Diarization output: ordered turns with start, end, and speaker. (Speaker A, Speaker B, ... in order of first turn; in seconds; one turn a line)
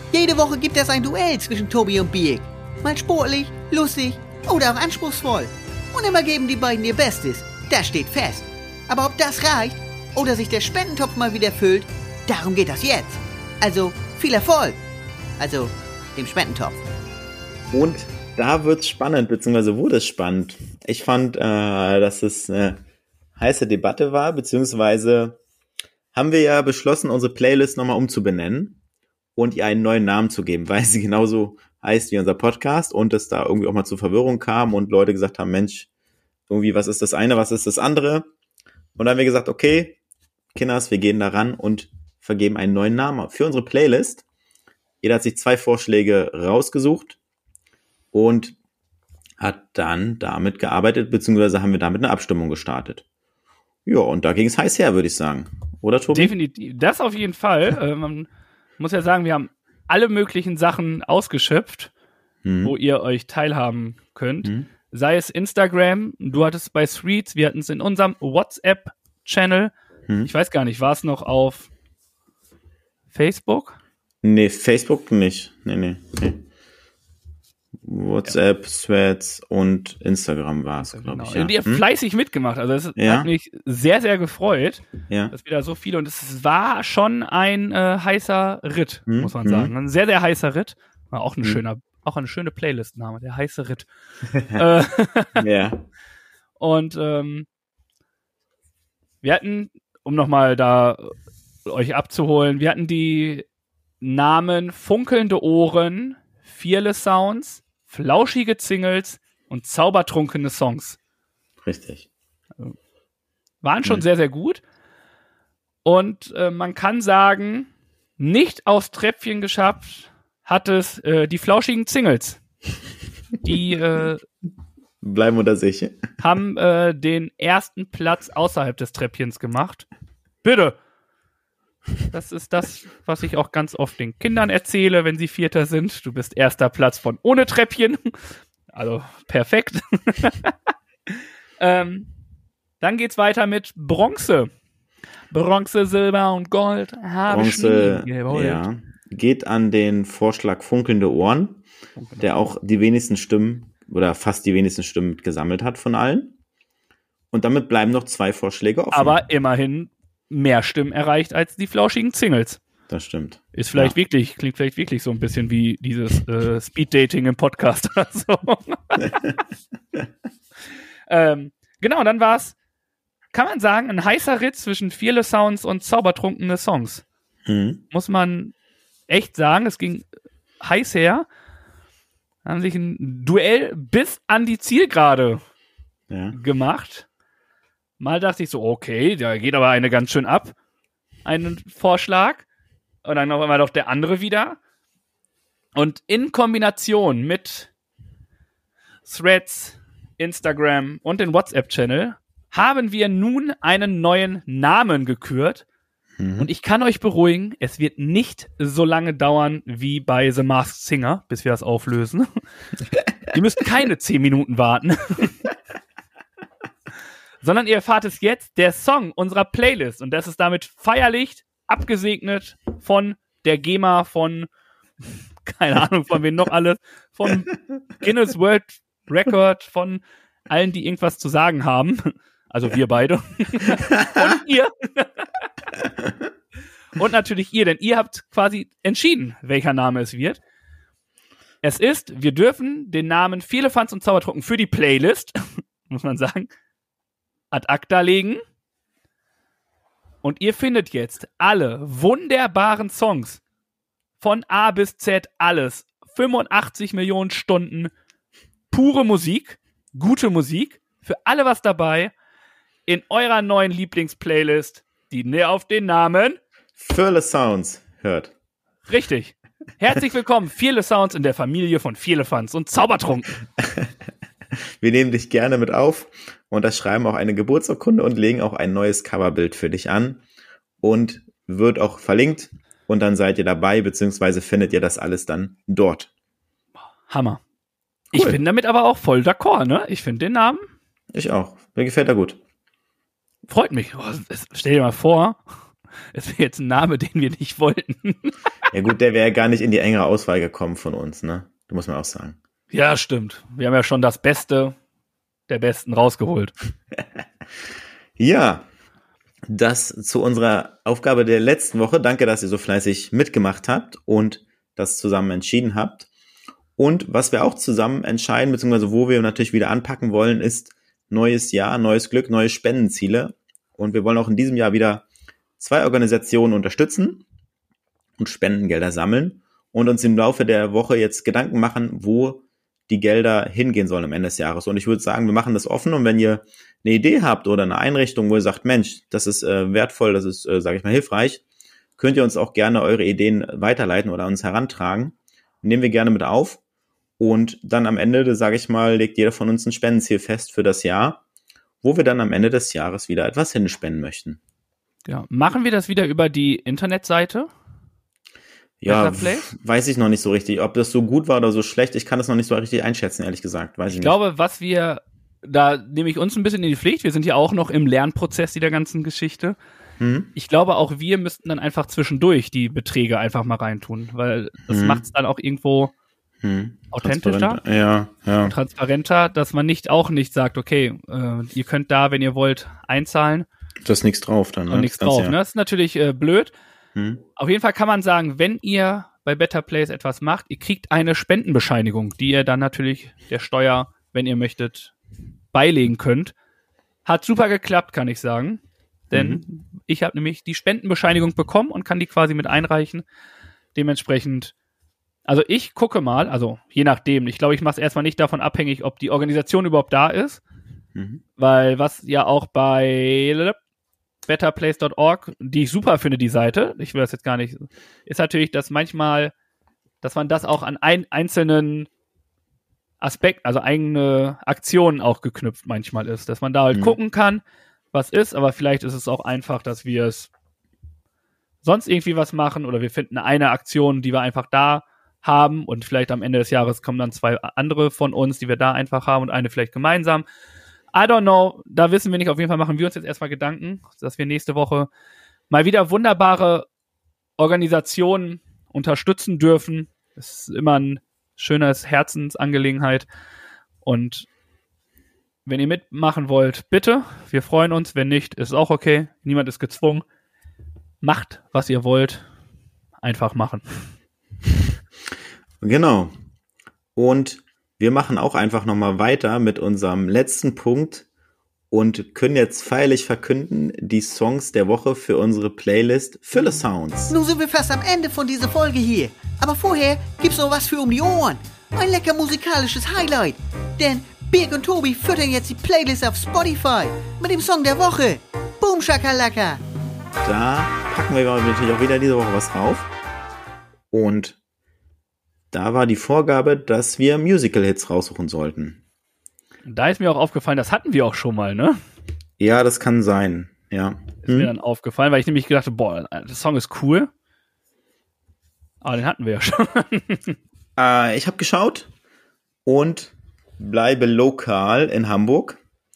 Speaker A: 0.1-14.8
Speaker A: 15.4-16.8
Speaker B: 17.7-22.8
Speaker B: 23.4-25.4
Speaker B: 26.1-28.8
Speaker B: 29.4-35.9
Speaker B: 36.5-38.3
Speaker B: 39.0-40.0
Speaker B: 40.5-44.2
Speaker B: 45.0-47.2
Speaker B: 48.1-48.6
Speaker B: 49.4-53.0
Speaker B: 53.9-56.3
Speaker C: 56.1-58.3
Speaker C: 58.8-61.9
Speaker B: 62.4-62.7
Speaker C: 62.6-69.7
Speaker C: 70.2-71.7
Speaker C: 73.1-73.8
Speaker B: 74.2-76.4
Speaker B: 77.8-81.9
Speaker C: 80.9-93.9
Speaker B: 83.0-83.3
Speaker B: 89.1-89.7
Speaker B: 94.3-94.6
Speaker C: 94.5-95.4
Speaker B: 95.4-95.8
Speaker C: 96.6-97.5
Speaker C: 99.2-101.1
Speaker C: 101.7-103.5
Speaker C: 104.0-111.0
Speaker B: 111.6-112.1
Speaker C: 113.6-114.6
Speaker C: 115.8-122.4
Speaker C: 123.4-124.2
Speaker B: 125.0-126.0
Speaker C: 126.2-129.9
Speaker C: 130.4-130.8
Speaker C: 132.1-138.2
Speaker C: 138.7-140.6
Speaker C: 141.1-142.1
Speaker C: 142.8-144.5
Speaker C: 145.3-148.6
Speaker B: 147.3-151.6
Speaker C: 152.0-152.2
Speaker B: 152.2-156.3
Speaker B: 157.3-159.2
Speaker C: 158.9-162.6
Speaker B: 162.9-163.9
Speaker C: 163.5-169.2
Speaker C: 171.1-172.6
Speaker C: 173.3-177.0
Speaker B: 177.4-177.8
Speaker C: 177.9-178.5
Speaker C: 179.1-180.1
Speaker C: 180.6-181.3
Speaker C: 182.4-185.4
Speaker B: 186.1-186.4
Speaker C: 186.3-187.1
Speaker C: 188.0-190.6
Speaker C: 191.2-192.4
Speaker C: 193.0-194.6
Speaker C: 195.7-197.7
Speaker C: 199.1-205.6
Speaker B: 206.2-206.5
Speaker C: 206.4-212.3
Speaker C: 213.3-215.4
Speaker C: 217.4-224.5
Speaker C: 225.4-235.4
Speaker C: 236.9-240.4
Speaker C: 241.6-246.5
Speaker C: 247.5-248.4
Speaker C: 250.2-253.4
Speaker C: 254.2-257.9
Speaker C: 258.7-262.1
Speaker C: 262.9-266.4
Speaker B: 266.8-268.3
Speaker C: 268.9-273.3
Speaker B: 273.6-273.9
Speaker B: 274.6-280.2
Speaker B: 280.8-286.1
Speaker C: 287.1-287.4
Speaker B: 288.1-288.4
Speaker C: 288.1-290.7
Speaker B: 291.1-292.4
Speaker C: 293.5-295.4
Speaker C: 296.1-298.4
Speaker B: 298.7-302.4
Speaker C: 302.7-304.8
Speaker C: 305.5-306.5
Speaker B: 308.2-308.7
Speaker B: 309.5-316.1
Speaker B: 316.8-325.1
Speaker B: 325.6-327.2
Speaker B: 328.2-341.4
Speaker B: 342.0-346.6
Speaker B: 347.2-351.2
Speaker B: 351.8-354.4
Speaker C: 355.1-357.5
Speaker B: 358.8-364.2
Speaker C: 358.9-359.5
Speaker C: 363.9-369.6
Speaker B: 370.0-370.3
Speaker C: 370.4-375.9
Speaker B: 374.7-375.0
Speaker B: 376.4-378.5
Speaker C: 376.9-377.6
Speaker C: 378.4-383.5
Speaker B: 383.9-385.4
Speaker C: 384.7-386.5
Speaker B: 386.9-387.2
Speaker C: 387.4-394.9
Speaker C: 395.5-396.3
Speaker C: 397.1-403.1
Speaker B: 399.1-399.4
Speaker C: 403.7-404.5
Speaker C: 405.3-410.4
Speaker B: 410.9-411.2
Speaker C: 411.4-413.6
Speaker C: 414.3-419.3
Speaker C: 420.0-421.9
Speaker C: 423.0-430.3
Speaker C: 431.6-440.2
Speaker C: 440.9-444.9
Speaker C: 445.5-446.7
Speaker C: 447.4-453.1
Speaker C: 453.8-454.3
Speaker C: 455.4-460.1
Speaker C: 461.0-462.2
Speaker C: 463.0-463.8
Speaker B: 465.6-466.1
Speaker B: 466.9-471.1
Speaker B: 471.7-477.1
Speaker A: 477.1-489.6
Speaker B: 490.2-492.9
Speaker B: 493.9-494.4
Speaker B: 495.5-498.8
Speaker C: 499.7-501.8
Speaker B: 502.4-504.5
Speaker C: 504.2-507.1
Speaker C: 508.8-510.4
Speaker B: 510.8-511.9
Speaker B: 512.6-515.6